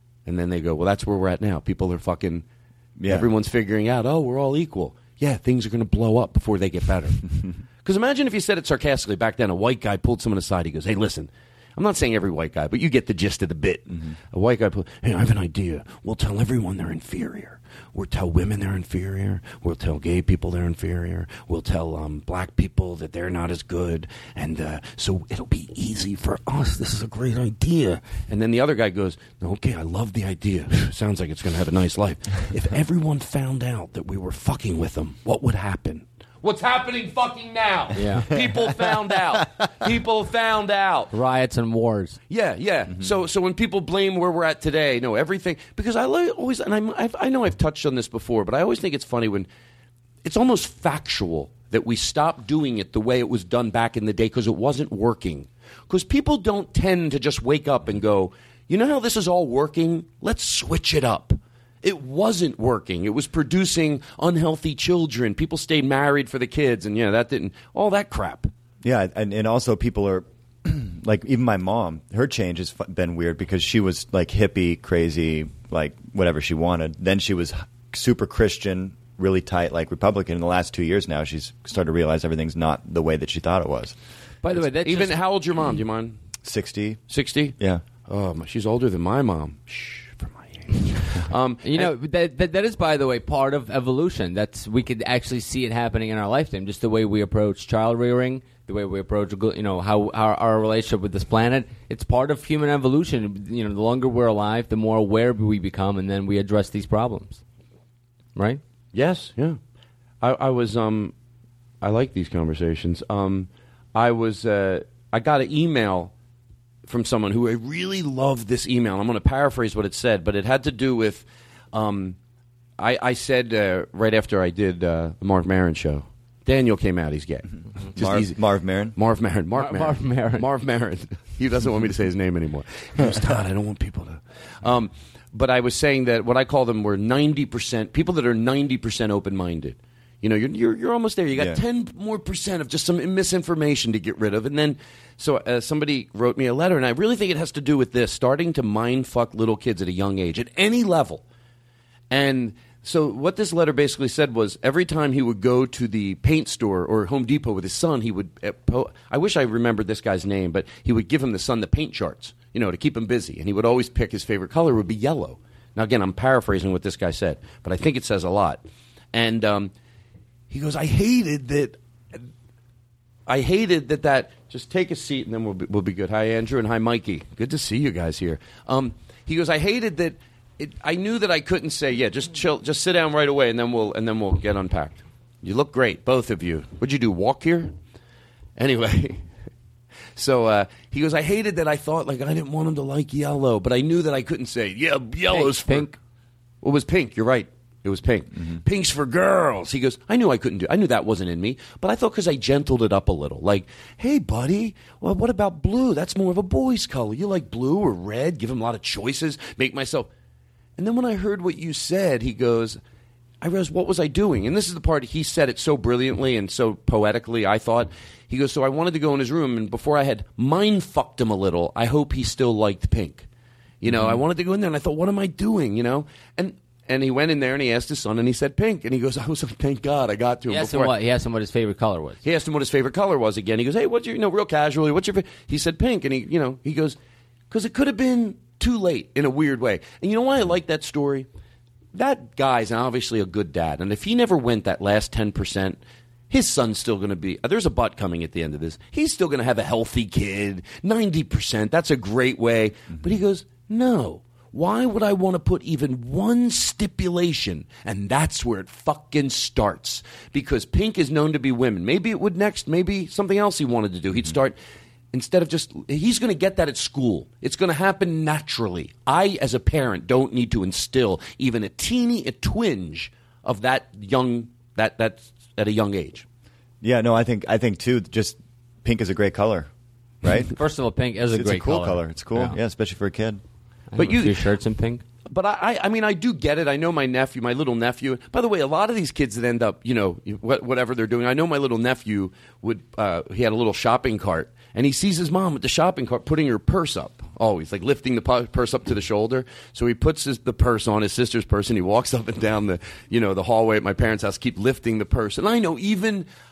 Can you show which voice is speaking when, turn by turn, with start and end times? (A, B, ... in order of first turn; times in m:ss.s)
0:00.2-0:02.4 A
0:03.0-0:03.3 B
0:03.1-0:07.2 A
0:07.8-0:41.1 A
0:37.9-0:38.3 C
0:41.1-0:42.2 C
0:42.3-0:49.5 A
0:50.2-1:08.5 A
1:08.8-1:24.0 B
1:24.4-1:25.2 C
1:24.7-1:26.2 A
1:26.4-1:27.0 B
1:27.1-1:31.9 A
1:31.6-1:47.4 C
1:48.4-1:48.6 C
1:48.9-1:49.6 A
1:50.2-1:51.1 A
1:51.8-1:56.1 A
1:56.8-2:02.2 A
2:02.8-2:08.4 A
2:08.0-2:08.9 B
2:08.9-2:31.2 A
2:09.6-2:10.5 C
2:21.3-2:21.6 B
2:32.1-2:49.7 A
2:50.5-2:52.2 A
2:53.3-3:07.7 A
3:08.6-3:09.2 A
3:10.2-3:15.9 A
3:15.3-3:15.9 C
3:16.6-3:30.1 A
3:30.8-3:32.8 A
3:33.4-3:43.3 A
3:43.8-3:50.9 A
3:50.5-3:52.2 C
3:52.2-3:57.0 A
3:57.5-4:01.3 A
4:01.9-4:05.8 A
4:06.3-4:24.6 A
4:25.1-4:36.2 A
4:36.8-4:39.7 B
4:40.2-4:40.5 B
4:40.5-4:42.6 C
4:41.3-4:43.4 B
4:43.9-4:45.0 C
4:44.0-4:44.4 A
4:45.2-5:06.3 A